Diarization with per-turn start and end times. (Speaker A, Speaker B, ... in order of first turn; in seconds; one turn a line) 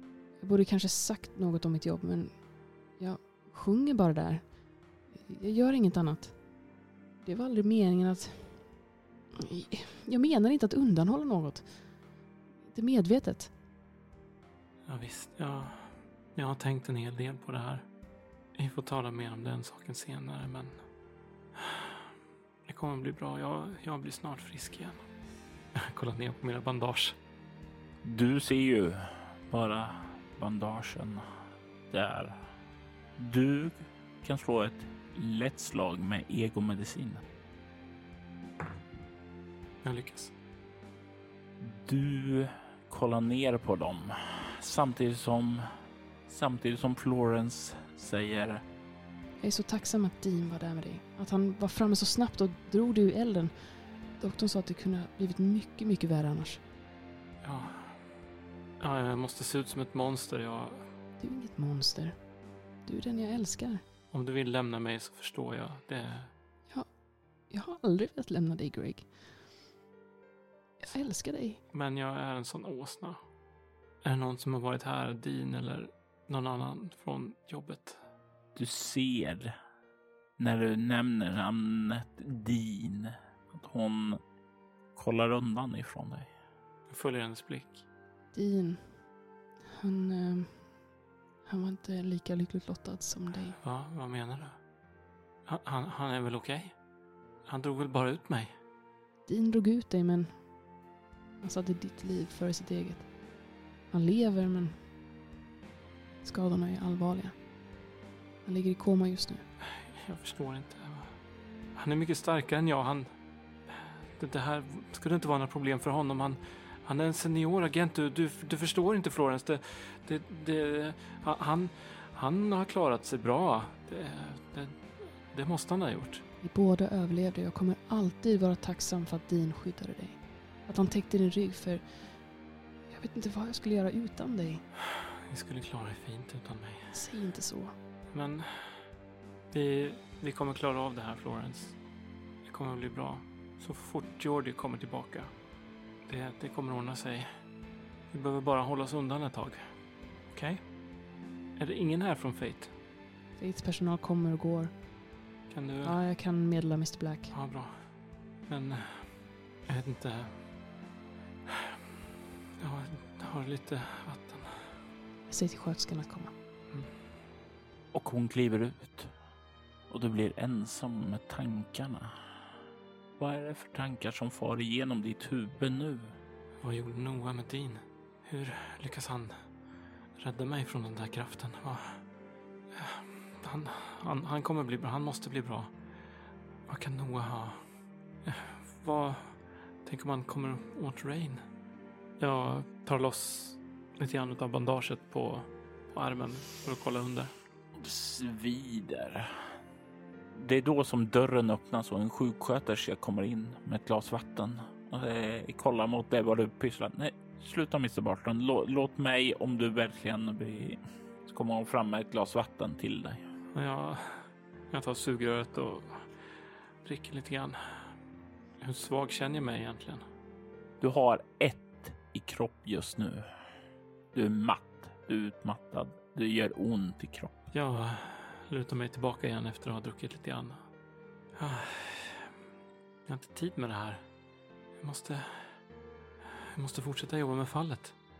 Speaker A: 0.4-6.4
Speaker A: 7.2-8.7
Speaker A: 9.4-12.0
Speaker A: 12.6-13.5
Speaker B: 14.9-17.9
Speaker B: 18.5-20.9
Speaker B: 22.6-25.1
Speaker B: 25.7-27.2
Speaker C: 28.0-31.2
Speaker C: 31.9-32.5
Speaker C: 33.2-37.2
Speaker B: 39.8-40.3
Speaker C: 41.6-45.6
Speaker C: 46.3-48.6
Speaker A: 49.4-56.6
Speaker B: 57.4-58.1
Speaker B: 58.8-60.9
Speaker A: 61.2-63.8
Speaker B: 64.1-66.3
Speaker A: 66.7-69.6
Speaker A: 70.8-71.6
Speaker B: 71.7-73.3
Speaker B: 74.0-78.0
Speaker C: 78.5-79.5
Speaker C: 80.4-84.2
Speaker C: 84.9-86.3
Speaker B: 86.9-87.8
Speaker A: 88.3-89.1
Speaker A: 89.6-93.6
Speaker B: 93.6-94.7
Speaker B: 95.5-96.8
Speaker B: 97.4-98.6
Speaker A: 99.2-100.5
Speaker A: 101.4-103.1
Speaker A: 103.9-104.9
Speaker A: 106.2-107.5
Speaker A: 108.4-109.5
Speaker B: 109.7-126.2
Speaker A: 126.4-132.3
Speaker A: 132.9-134.7
Speaker B: 135.3-137.0
Speaker A: 136.9-137.8
Speaker B: 138.1-139.0
Speaker B: 139.5-141.8
Speaker B: 142.4-145.4
Speaker B: 146.0-147.5
Speaker B: 148.1-150.8
Speaker B: 151.6-152.7
Speaker A: 153.4-154.8
Speaker B: 155.5-156.0
Speaker A: 155.8-157.3
Speaker B: 157.3-160.5
Speaker B: 162.6-164.8
Speaker A: 165.3-166.3
Speaker C: 167.9-169.1
Speaker C: 169.9-172.1
Speaker C: 173.2-176.1
Speaker B: 176.6-182.1
Speaker B: 182.7-191.5
Speaker B: 192.2-197.3
Speaker C: 197.7-199.3
Speaker C: 200.3-213.2
Speaker B: 213.5-217.9
Speaker B: 218.6-220.1
Speaker C: 220.8-223.2
Speaker C: 224.1-227.4
Speaker B: 227.5-230.7
Speaker B: 231.3-232.3
Speaker B: 233.1-234.0
Speaker B: 234.8-235.7
Speaker B: 236.5-237.9